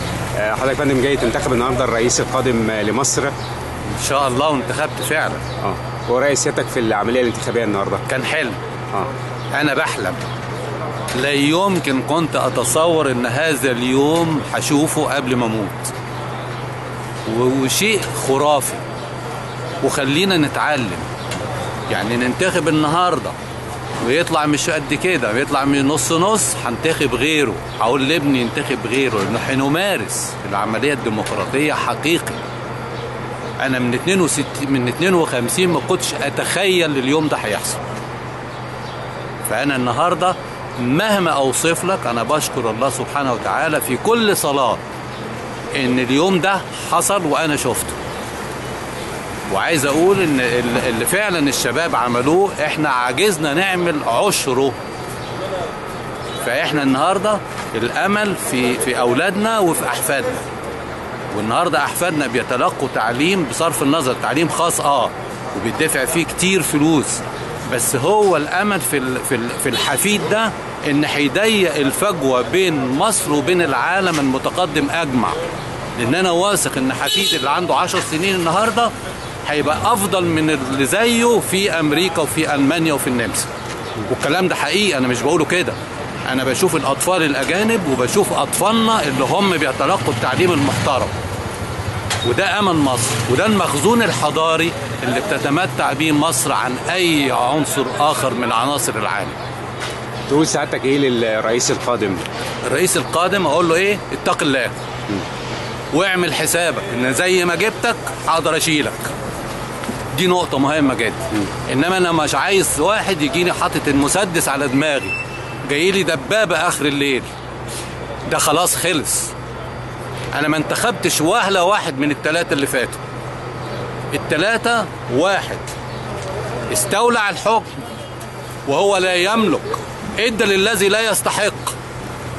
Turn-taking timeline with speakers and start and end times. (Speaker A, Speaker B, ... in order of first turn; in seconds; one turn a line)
Speaker A: 0.3-3.3
Speaker B: 3.9-5.4
Speaker A: 5.6-8.0
Speaker B: 8.1-8.6
Speaker B: 9.5-10.2
Speaker B: 11.1-15.9
Speaker B: 17.2-18.8
Speaker B: 19.8-21.1
Speaker B: 21.9-23.3
Speaker B: 24.0-32.4
Speaker B: 33.6-37.8
Speaker B: 39.4-44.8
Speaker B: 45.7-48.0
Speaker B: 49.5-54.8
Speaker B: 56.4-60.5
Speaker B: 61.3-75.4
Speaker B: 76.0-78.9
Speaker B: 79.5-83.5
Speaker B: 84.0-91.1
Speaker B: 92.2-99.3
Speaker A: 100.3-102.2
Speaker B: 102.6-104.8
Speaker B: 105.9-109.1
Speaker B: 110.1-117.3
Speaker B: 118.3-119.3
Speaker B: 120.3-123.0
Speaker B: 124.1-125.7
Speaker B: 126.7-127.8
Speaker B: 128.7-131.8